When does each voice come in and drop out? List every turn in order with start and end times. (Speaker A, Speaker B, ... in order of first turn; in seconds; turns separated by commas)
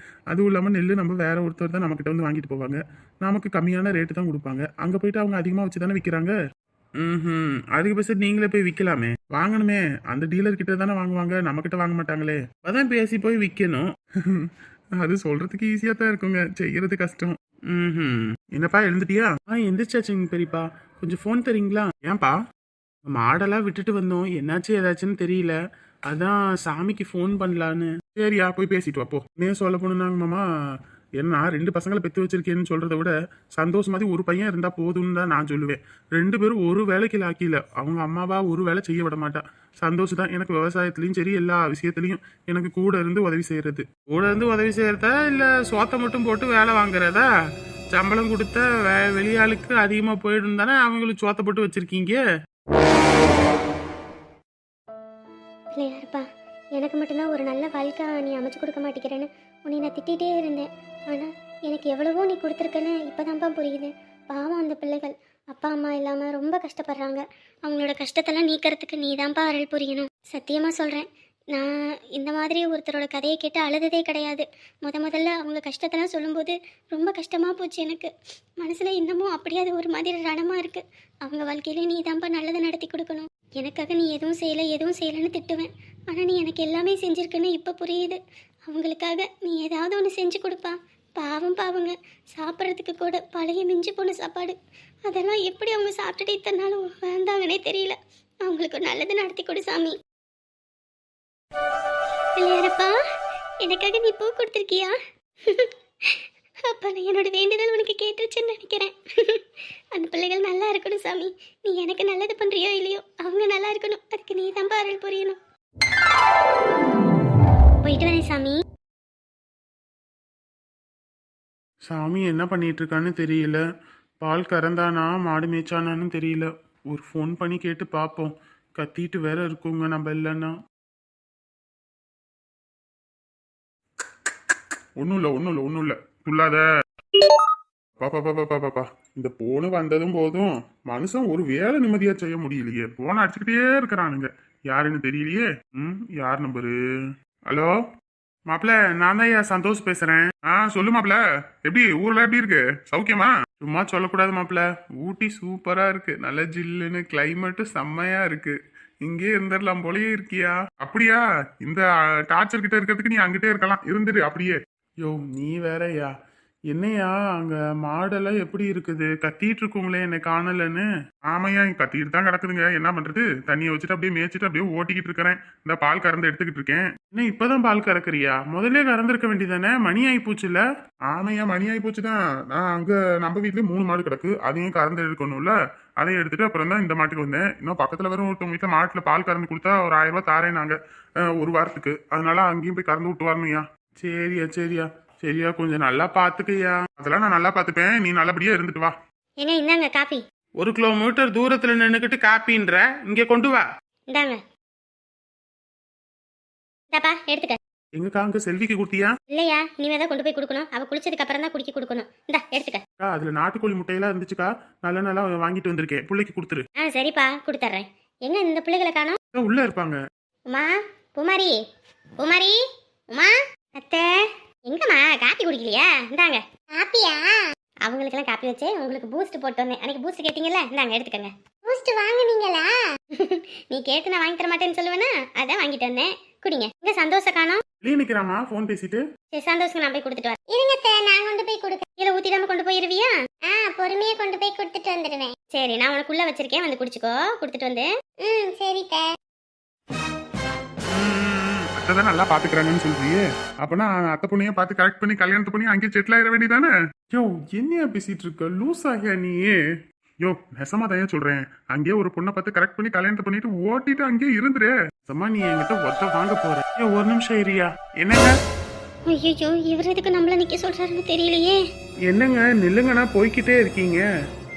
Speaker A: 0.3-6.3, Speaker A: 7.0-22.4, Speaker A: 23.1-25.5, Speaker A: 26.1-30.4, Speaker A: 31.2-47.3, Speaker A: 47.9-52.2, Speaker B: 55.7-56.2, Speaker B: 56.8-100.0, Speaker B: 102.3-102.9, Speaker B: 103.6-115.4, Speaker B: 117.8-118.6, Speaker A: 121.8-123.6, Speaker A: 124.2-130.5, Speaker A: 135.0-136.6, Speaker A: 138.0-146.7, Speaker A: 147.5-147.7, Speaker A: 148.5-166.1, Speaker A: 166.7-198.9, Speaker B: 199.4-200.2, Speaker A: 200.6-203.6, Speaker B: 204.1-204.4, Speaker B: 206.9-207.6, Speaker A: 207.9-209.1, Speaker B: 209.3-212.8, Speaker A: 213.0-216.6, Speaker B: 216.8-219.2, Speaker A: 219.3-220.0, Speaker B: 220.5-221.6, Speaker B: 222.2-222.6, Speaker B: 223.1-237.6, Speaker A: 237.8-239.0, Speaker B: 239.3-249.1, Speaker A: 250.9-259.6, Speaker A: 260.2-268.3, Speaker B: 269.1-271.6, Speaker A: 272.1-274.1